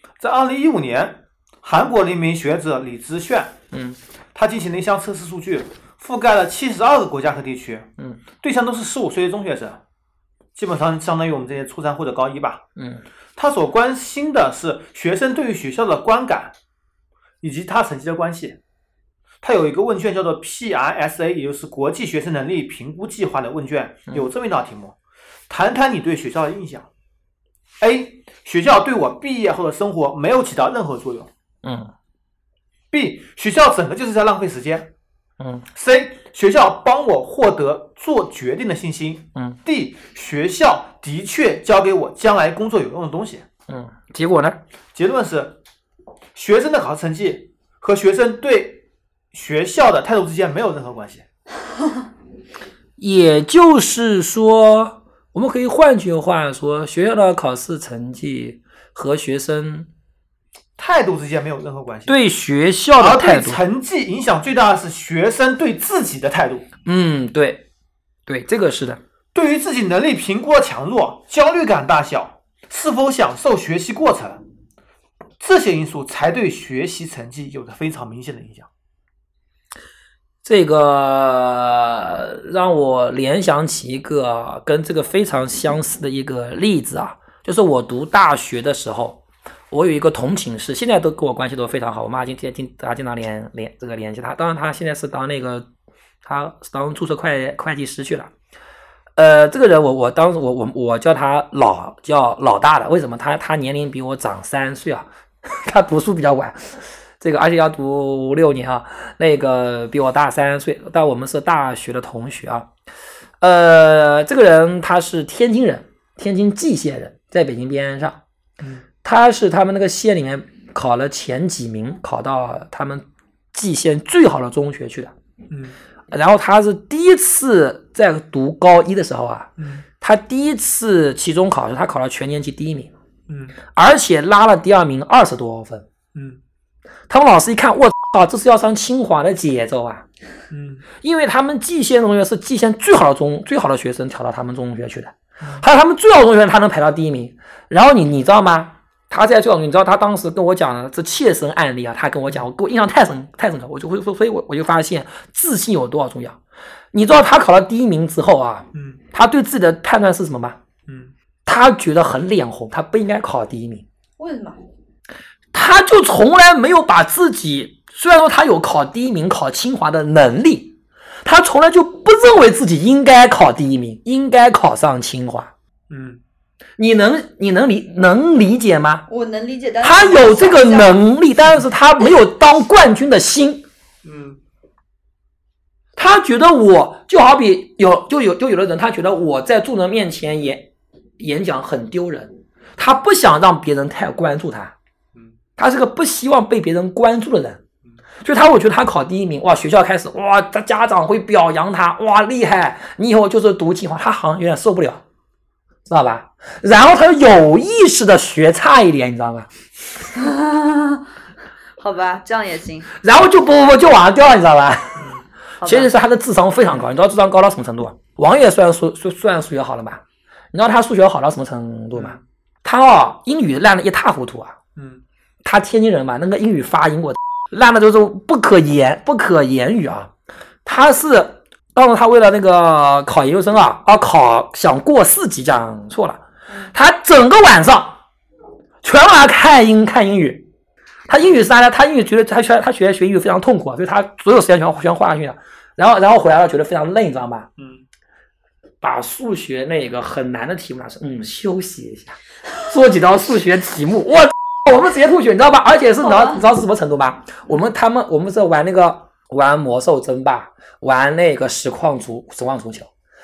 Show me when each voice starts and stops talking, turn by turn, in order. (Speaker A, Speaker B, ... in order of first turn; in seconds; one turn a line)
Speaker A: 0.2-3.5
Speaker B: 3.7-4.0
Speaker A: 4.3-9.8
Speaker A: 10.6-12.6
Speaker B: 12.8-13.0
Speaker A: 13.3-16.5
Speaker A: 17.4-18.6
Speaker A: 19.4-25.0
Speaker A: 25.5-26.9
Speaker A: 27.8-31.3
Speaker B: 31.6-31.9
Speaker A: 32.9-34.9
Speaker B: 35.4-35.7
Speaker A: 35.7-43.5
Speaker B: 43.7-44.6
Speaker A: 44.9-45.6
Speaker A: 46.3-51.2
Speaker B: 53.0-59.9
Speaker A: 60.8-62.2
Speaker B: 62.1-63.6
Speaker A: 63.0-66.7
Speaker B: 66.8-67.7
Speaker B: 68.3-69.0
Speaker A: 69.3-74.4
Speaker A: 75.4-78.7
Speaker B: 80.4-95.7
Speaker B: 96.2-98.3
Speaker B: 99.2-112.7
Speaker B: 113.4-118.2
Speaker B: 119.0-125.1
Speaker A: 125.5-125.8
Speaker B: 126.1-132.9
Speaker A: 129.6-129.8
Speaker A: 133.3-133.6
Speaker B: 133.7-135.8
Speaker A: 136.1-136.4
Speaker B: 137.1-140.1
Speaker A: 140.5-140.8
Speaker B: 141.0-156.4
Speaker B: 156.9-160.6
Speaker A: 158.7-159.0
Speaker A: 160.9-161.1
Speaker B: 161.4-163.8
Speaker C: 164.2-164.6
Speaker B: 165.5-175.5
Speaker A: 175.9-176.2
Speaker B: 176.8-179.1
Speaker C: 179.1-181.0
Speaker B: 179.8-183.6
Speaker A: 184.0-184.4
Speaker B: 185.9-194.7
Speaker B: 195.6-197.6
Speaker B: 198.2-205.0
Speaker B: 205.9-209.5
Speaker C: 210.2-211.0
Speaker C: 211.8-212.9
Speaker B: 213.0-224.6
Speaker C: 215.6-215.9
Speaker A: 221.9-222.2
Speaker A: 224.8-225.0
Speaker B: 225.4-230.1
Speaker B: 230.6-238.0
Speaker B: 238.8-240.5
Speaker B: 241.1-247.5
Speaker A: 247.6-247.8
Speaker B: 248.8-262.9